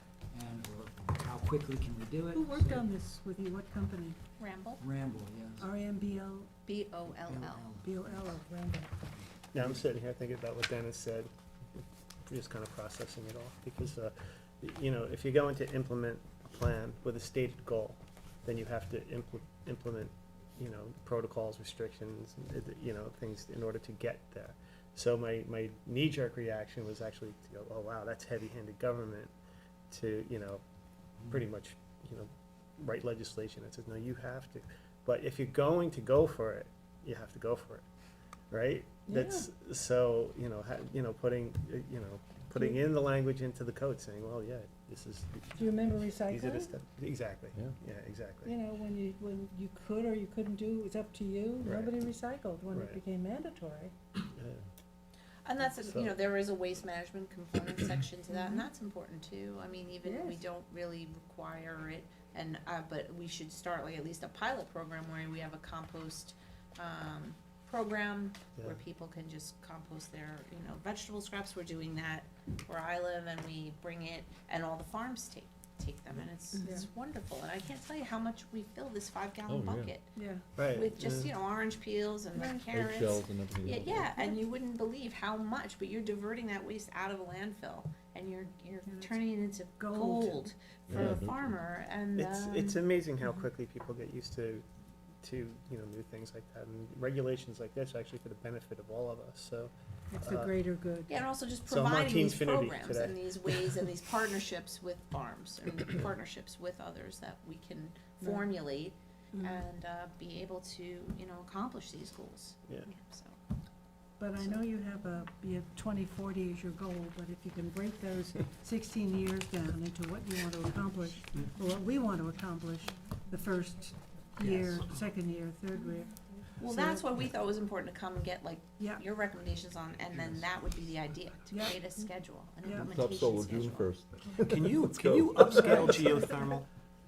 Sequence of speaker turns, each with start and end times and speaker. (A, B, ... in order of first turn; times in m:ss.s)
0:00.3-0:02.9 A
0:02.3-0:04.2 B
0:04.4-0:04.8 C
0:04.8-0:05.7 A
0:05.6-0:06.5 B
0:06.7-0:07.7 C
0:07.1-0:08.4 A
0:07.8-0:08.9 B
0:09.2-0:09.8 A
0:09.5-0:11.3 D
0:12.3-0:29.3 D
0:29.9-0:30.6 D
0:31.3-0:37.8 D
0:38.5-0:48.6 D
0:39.1-0:39.5 B
0:45.6-0:46.7 B
0:48.4-0:53.9 B
0:51.6-0:51.9 D
0:52.7-0:53.0 D
0:54.3-0:54.6 D
0:55.4-1:20.1 C
0:55.9-0:56.2 D
0:58.3-0:58.7 B
1:00.0-1:00.4 B
1:16.6-1:16.9 B
1:19.5-1:19.9 E
1:20.2-1:20.5 B
1:20.6-1:21.3 D
1:20.7-1:32.8 C
1:22.4-1:22.7 B
1:22.7-1:24.1 E
1:28.9-1:30.5 B
1:30.9-1:31.6 E
1:32.2-1:34.6 D
1:35.2-1:40.5 D
1:40.1-1:41.2 B
1:41.1-1:53.4 C
1:41.7-1:43.9 D
1:48.2-1:48.5 B
1:49.4-1:49.6 B
1:54.2-2:07.1 B
1:54.4-1:54.6 C
2:04.4-2:05.0 A
2:06.6-2:13.9 C
2:08.8-2:09.0 B
2:11.5-2:11.8 B
2:12.6-2:12.9 B
2:12.8-2:16.0 E
2:14.5-2:16.7 D
2:15.6-2:16.2 B